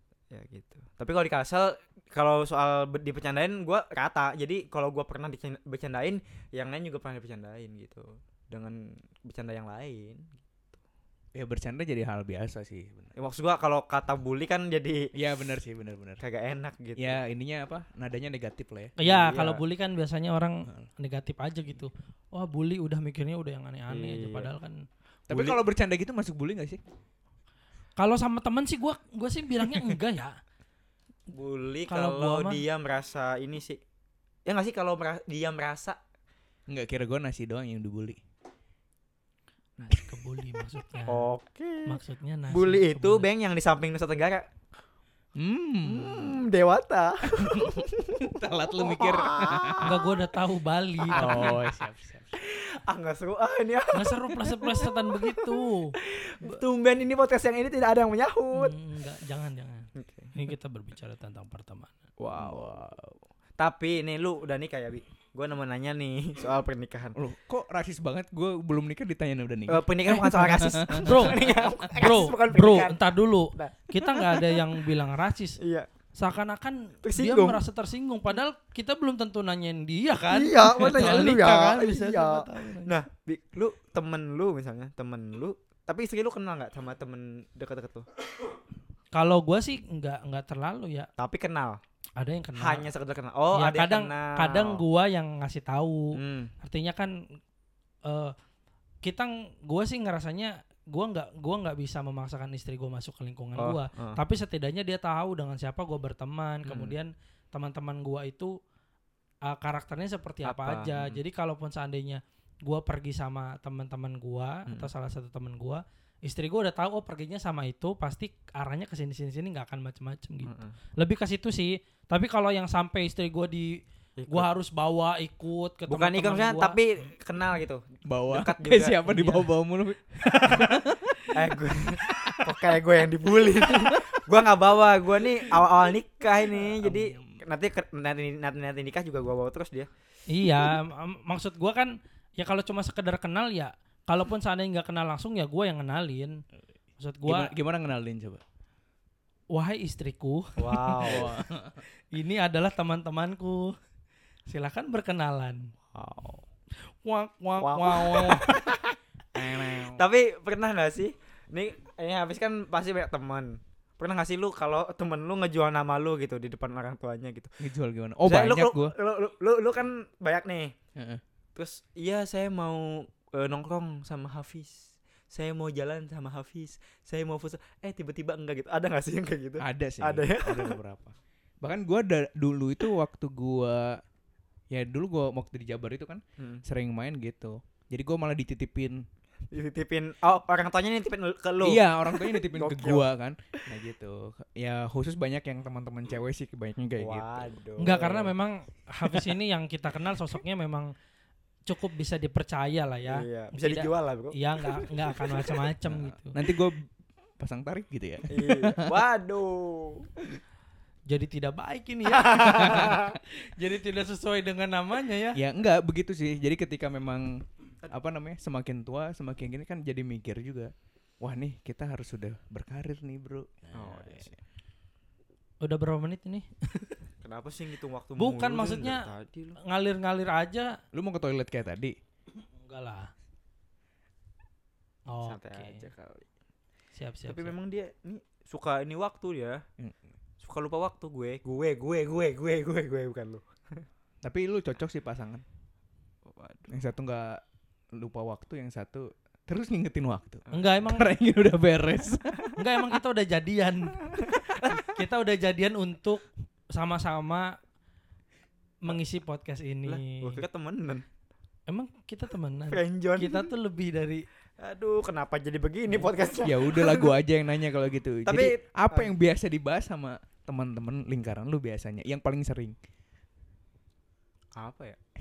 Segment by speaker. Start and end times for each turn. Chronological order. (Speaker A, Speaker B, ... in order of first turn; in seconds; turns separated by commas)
Speaker A: 0.3-10.7, Speaker B: 11.3-13.1, Speaker A: 13.2-15.1, Speaker B: 15.1-16.2, Speaker A: 16.2-17.2, Speaker B: 17.0-18.9, Speaker C: 19.0-24.8, Speaker A: 19.0-19.6, Speaker A: 23.9-24.5, Speaker A: 25.3-25.6, Speaker B: 25.3-26.8, Speaker C: 28.0-30.3, Speaker A: 31.3-33.8, Speaker C: 31.9-32.6, Speaker A: 34.5-36.0, Speaker B: 36.7-38.2, Speaker C: 39.8-41.3, Speaker A: 41.1-42.0, Speaker C: 41.9-43.2, Speaker A: 42.5-44.5, Speaker B: 45.4-46.4, Speaker A: 45.8-50.1, Speaker B: 47.4-50.0, Speaker C: 49.8-51.6, Speaker A: 51.1-51.6, Speaker B: 51.1-52.3, Speaker A: 52.4-58.7, Speaker C: 53.9-56.0, Speaker C: 58.5-62.0, Speaker A: 60.0-60.3, Speaker A: 62.2-62.9, Speaker B: 62.3-63.1, Speaker A: 63.6-67.2, Speaker B: 67.2-71.9, Speaker A: 69.7-73.8, Speaker C: 71.0-71.4, Speaker C: 71.9-75.6, Speaker A: 75.6-75.9, Speaker C: 76.2-83.0, Speaker A: 77.0-77.6, Speaker A: 80.3-88.1, Speaker B: 80.8-81.2, Speaker C: 89.1-91.1, Speaker A: 91.2-91.8, Speaker C: 92.2-92.9, Speaker A: 92.6-94.8, Speaker C: 93.5-97.1, Speaker A: 96.2-96.5, Speaker C: 98.0-98.3, Speaker C: 99.0-108.5, Speaker A: 103.6-104.2, Speaker A: 106.7-106.9, Speaker C: 109.5-126.8, Speaker A: 110.4-111.2, Speaker A: 120.4-120.7, Speaker A: 124.2-124.5, Speaker A: 125.9-129.5, Speaker B: 128.1-131.3, Speaker A: 131.3-139.9, Speaker B: 132.0-132.5, Speaker B: 133.6-134.0, Speaker B: 136.6-137.3, Speaker C: 140.3-146.4, Speaker C: 147.0-147.5, Speaker B: 147.2-148.4, Speaker C: 149.5-151.3, Speaker A: 150.6-151.3, Speaker B: 151.0-151.8, Speaker C: 152.1-153.7, Speaker C: 154.5-155.7, Speaker A: 155.9-156.4, Speaker C: 156.9-158.6, Speaker A: 157.6-158.9, Speaker B: 159.3-160.0, Speaker A: 159.9-167.5, Speaker B: 167.6-168.9, Speaker A: 168.2-170.7, Speaker B: 170.9-171.2, Speaker A: 171.5-180.8, Speaker B: 179.6-184.0, Speaker B: 184.7-189.0, Speaker A: 189.5-193.1, Speaker B: 191.6-197.4, Speaker A: 197.0-198.3, Speaker C: 197.8-200.9, Speaker C: 201.7-206.3, Speaker A: 203.1-204.3, Speaker B: 205.9-206.8, Speaker B: 207.4-208.9, Speaker A: 208.3-210.1, Speaker C: 211.1-215.4, Speaker A: 212.1-213.2, Speaker B: 212.6-212.9, Speaker B: 215.3-224.3, Speaker A: 223.7-224.3, Speaker C: 225.6-227.0, Speaker A: 227.2-229.6, Speaker C: 228.2-229.1, Speaker C: 229.6-230.7, Speaker B: 230.9-231.9, Speaker C: 232.3-233.1, Speaker C: 235.1-235.8, Speaker A: 235.2-236.3, Speaker C: 236.9-237.5, Speaker A: 237.3-239.6, Speaker A: 240.4-243.8, Speaker B: 244.2-245.4, Speaker A: 246.2-246.7, Speaker B: 246.7-247.4, Speaker B: 248.0-252.5, Speaker A: 250.5-250.8, Speaker C: 250.5-251.1, Speaker C: 252.6-254.1, Speaker A: 254.2-254.8, Speaker C: 254.6-257.5, Speaker C: 258.8-260.4, Speaker A: 259.9-261.0, Speaker C: 261.7-264.2, Speaker A: 262.7-263.5, Speaker A: 264.6-267.1, Speaker B: 266.4-272.8, Speaker A: 268.2-269.1, Speaker A: 274.6-275.0